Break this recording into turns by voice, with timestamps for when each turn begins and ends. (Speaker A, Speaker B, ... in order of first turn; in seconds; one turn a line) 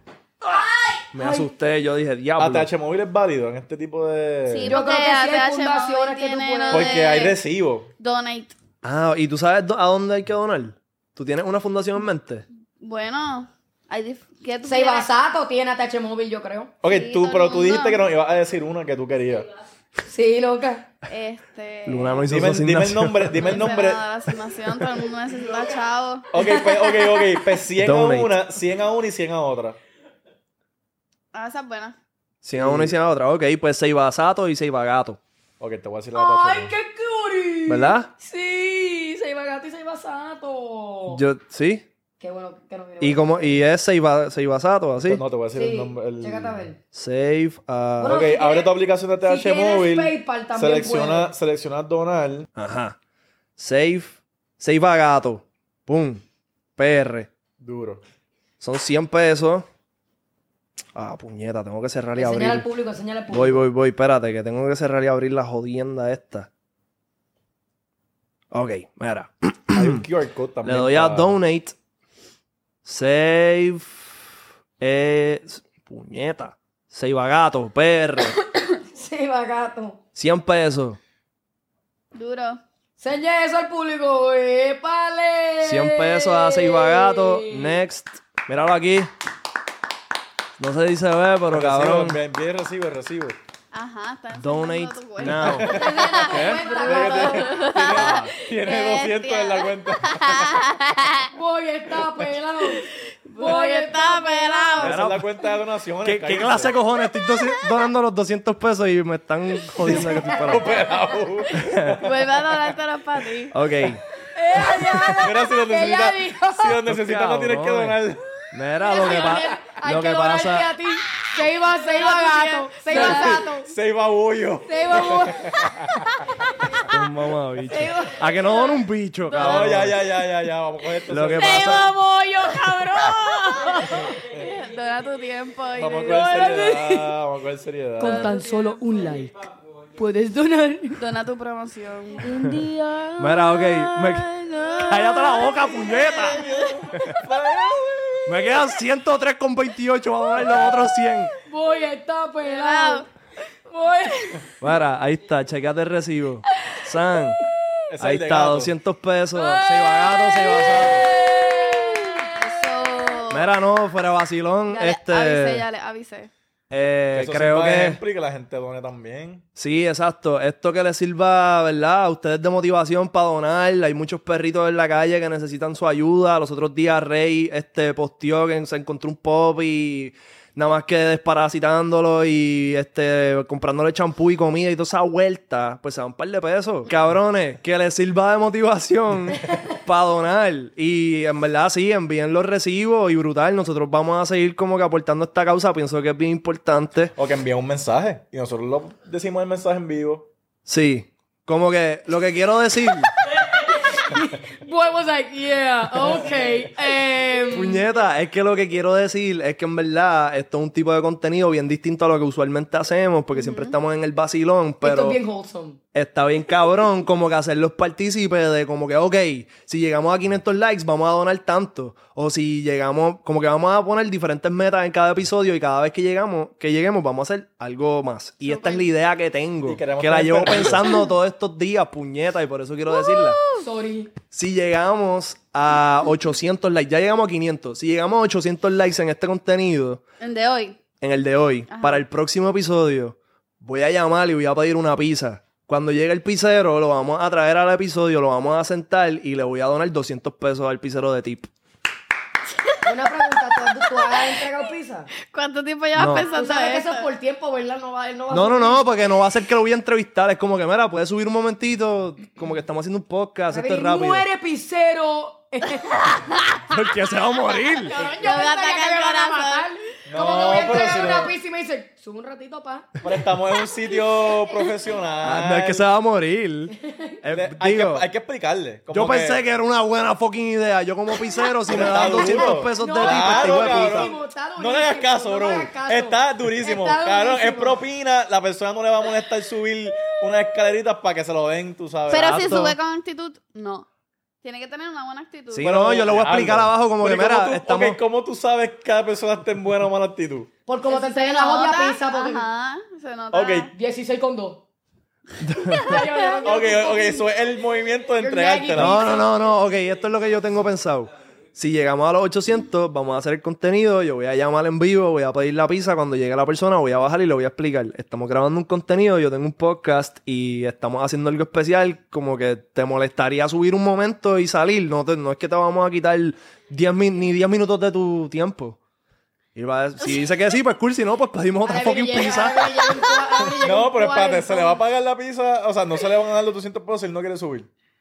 Speaker A: 0.4-1.5
Speaker B: 1.1-2.7
Speaker C: 2.4-4.7
Speaker D: 4.5-7.4
Speaker A: 4.7-7.2
Speaker C: 6.7-7.9
Speaker D: 8.0-8.5
Speaker B: 8.8-12.4
Speaker D: 12.8-15.2
Speaker A: 14.6-16.7
Speaker C: 16.8-19.5
Speaker D: 16.8-18.1
Speaker A: 20.0-20.9
Speaker D: 21.1-22.2
Speaker B: 21.9-23.4
Speaker C: 22.2-24.1
Speaker D: 23.4-26.3
Speaker C: 26.3-29.8
Speaker A: 26.4-27.4
Speaker B: 27.8-28.3
Speaker D: 31.3-31.9
Speaker B: 32.4-35.2
Speaker C: 32.5-33.0
Speaker C: 35.6-36.7
Speaker A: 36.1-41.2
Speaker B: 37.7-38.1
Speaker B: 41.1-41.8
Speaker A: 42.2-43.6
Speaker B: 43.0-45.2
Speaker C: 45.0-46.7
Speaker A: 45.5-46.8
Speaker B: 46.9-48.2
Speaker A: 48.0-51.3
Speaker C: 48.0-52.5
Speaker B: 52.5-53.0
Speaker B: 53.6-56.2
Speaker B: 56.8-57.3
Speaker C: 57.6-58.0
Speaker B: 58.6-59.6
Speaker B: 60.9-62.7
Speaker A: 62.1-63.6
Speaker B: 63.3-66.5
Speaker B: 68.5-70.0
Speaker C: 69.7-71.4
Speaker B: 70.6-71.7
Speaker B: 72.8-74.1
Speaker B: 74.8-78.4
Speaker A: 78.9-80.0
Speaker B: 80.1-81.0
Speaker D: 82.1-82.6
Speaker A: 83.0-87.8
Speaker B: 85.6-89.1
Speaker B: 90.6-92.2
Speaker C: 91.5-93.4
Speaker D: 93.7-101.3
Speaker B: 94.3-96.6
Speaker C: 95.2-95.8
Speaker A: 95.6-97.8
Speaker C: 96.8-100.6
Speaker A: 101.3-104.9
Speaker D: 102.8-105.0
Speaker C: 104.8-106.7
Speaker B: 104.8-105.2
Speaker B: 106.0-110.7
Speaker A: 109.8-110.7
Speaker C: 109.9-112.1
Speaker B: 111.5-112.0
Speaker D: 112.0-113.5
Speaker B: 113.5-114.0
Speaker A: 114.3-116.8
Speaker B: 114.6-115.2
Speaker C: 115.2-118.3
Speaker B: 116.9-118.0
Speaker B: 118.5-120.7
Speaker A: 118.8-123.7
Speaker D: 121.6-123.5
Speaker C: 122.9-126.1
Speaker A: 124.7-126.9
Speaker B: 126.9-129.9
Speaker A: 127.7-128.8
Speaker A: 129.3-129.6
Speaker C: 129.3-131.9
Speaker B: 131.1-131.9
Speaker D: 131.4-131.7
Speaker A: 131.5-134.2
Speaker D: 132.6-136.5
Speaker C: 135.8-138.4
Speaker A: 136.0-137.1
Speaker A: 138.0-139.4
Speaker A: 139.9-141.0
Speaker D: 141.0-146.7
Speaker A: 142.2-143.0
Speaker B: 143.2-147.2
Speaker C: 146.1-148.6
Speaker B: 148.2-151.3
Speaker C: 150.4-150.9
Speaker A: 151.4-153.1
Speaker D: 152.4-153.1
Speaker A: 153.7-154.5
Speaker B: 154.6-157.4
Speaker C: 157.9-158.7
Speaker B: 158.0-161.0
Speaker A: 159.3-163.2
Speaker C: 160.5-161.1
Speaker D: 162.3-163.5
Speaker B: 163.3-165.6
Speaker D: 164.7-166.3
Speaker B: 166.7-168.0
Speaker C: 167.1-169.4
Speaker B: 169.6-197.1
Speaker C: 197.2-200.3
Speaker B: 200.7-203.1
Speaker A: 203.7-207.8
Speaker B: 207.5-215.2
Speaker D: 213.3-213.7
Speaker A: 214.8-215.8
Speaker B: 215.9-233.4
Speaker D: 228.4-228.8
Speaker C: 229.6-230.9
Speaker D: 233.0-233.6
Speaker A: 233.6-234.1
Speaker B: 234.3-240.0
Speaker D: 240.2-240.8
Speaker B: 241.0-251.5
Speaker D: 241.7-242.0
Speaker D: 252.6-254.6
Speaker A: 252.8-255.1
Speaker D: 255.2-257.1
Speaker B: 255.9-256.3
Speaker A: 256.1-258.8
Speaker B: 258.3-264.2
Speaker A: 263.5-266.4
Speaker B: 266.7-268.0
Speaker A: 267.8-273.0
Speaker D: 267.9-269.7
Speaker C: 270.1-271.3
Speaker D: 270.4-271.1
Speaker C: 273.0-275.9
Speaker A: 274.2-274.7
Speaker B: 275.2-278.0
Speaker A: 276.7-277.2
Speaker C: 277.3-279.4
Speaker B: 278.9-284.1
Speaker C: 281.7-292.6
Speaker A: 281.7-287.8
Speaker D: 292.1-293.9
Speaker B: 292.1-292.7
Speaker D: 294.4-295.8
Speaker B: 295.5-298.0
Speaker C: 295.6-300.5
Speaker A: 300.6-302.4
Speaker D: 300.9-303.7
Speaker C: 303.3-303.7
Speaker A: 303.7-304.6
Speaker B: 305.4-305.9
Speaker D: 305.6-306.6
Speaker A: 305.8-307.3
Speaker C: 306.4-309.0
Speaker A: 308.2-309.3
Speaker B: 308.7-328.8
Speaker B: 329.5-332.8
Speaker A: 331.6-334.8
Speaker C: 333.6-337.7